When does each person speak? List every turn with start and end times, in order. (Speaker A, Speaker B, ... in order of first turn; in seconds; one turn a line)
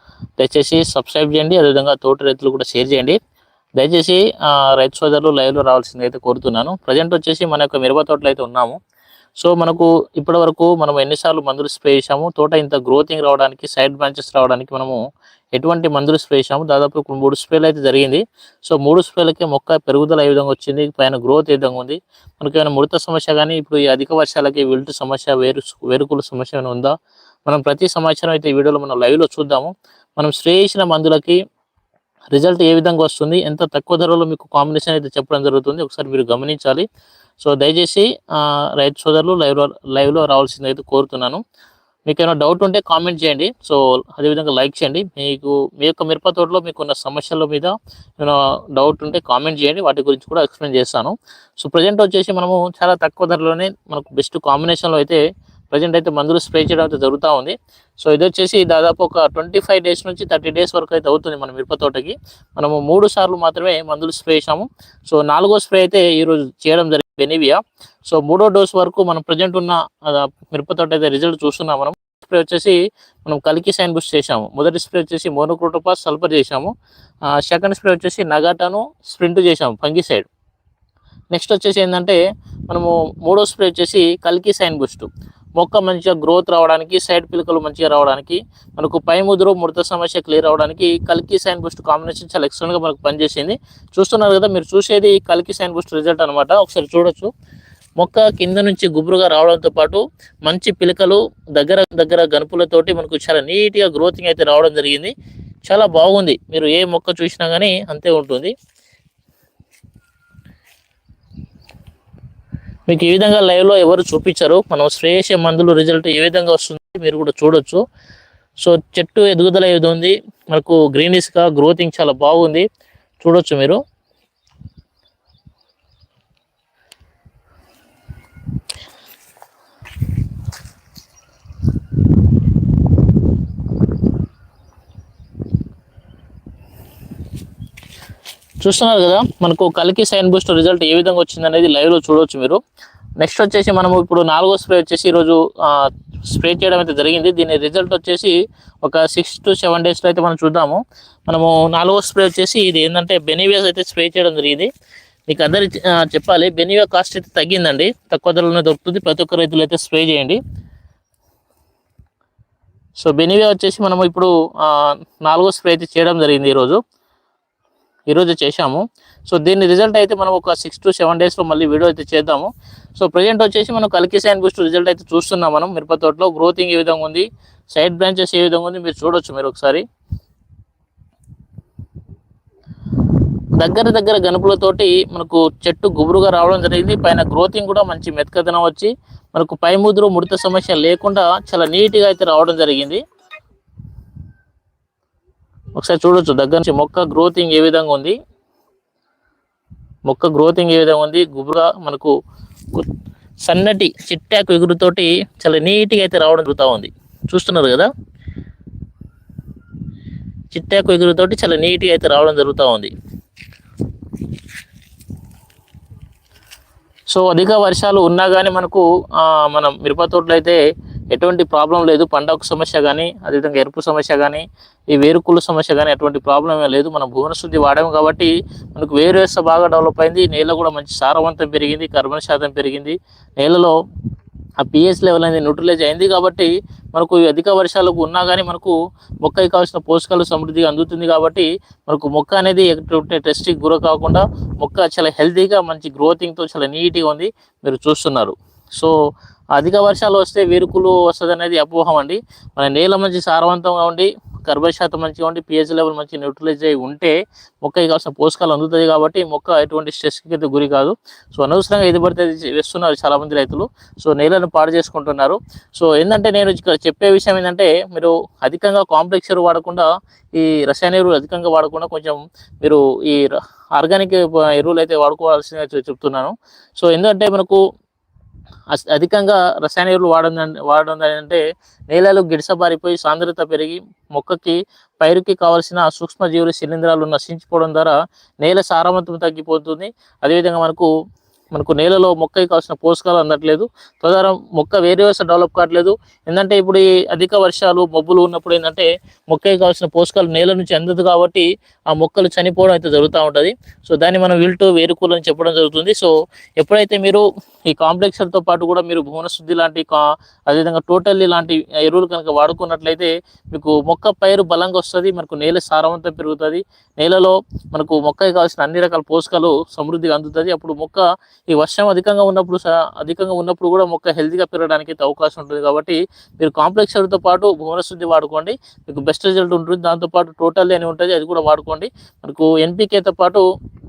Speaker A: 0.4-3.2
Speaker A: 3.8-8.8
Speaker A: 9.4-15.0
Speaker A: 15.6-26.9
Speaker A: 27.5-31.4
Speaker A: 32.3-36.9
Speaker A: 37.4-41.4
Speaker A: 42.1-76.7
Speaker A: 77.3-80.3
Speaker A: 81.3-97.3
Speaker A: 98.0-105.1
Speaker A: 105.7-108.5
Speaker A: 112.9-117.8
Speaker A: 118.6-122.7
Speaker A: 123.2-123.8
Speaker A: 138.6-142.6
Speaker A: 143.2-154.7
Speaker A: 155.3-160.4
Speaker A: 163.0-166.8
Speaker A: 168.1-179.8
Speaker A: 183.6-193.0
Speaker A: 195.8-198.2
Speaker A: 200.1-202.1
Speaker A: 203.4-207.9
Speaker A: 210.5-212.9
Speaker A: 217.1-220.6
Speaker A: 221.1-233.7
Speaker A: 234.6-249.0
Speaker A: 249.6-277.6
Speaker A: 278.7-290.9
Speaker A: 291.5-333.4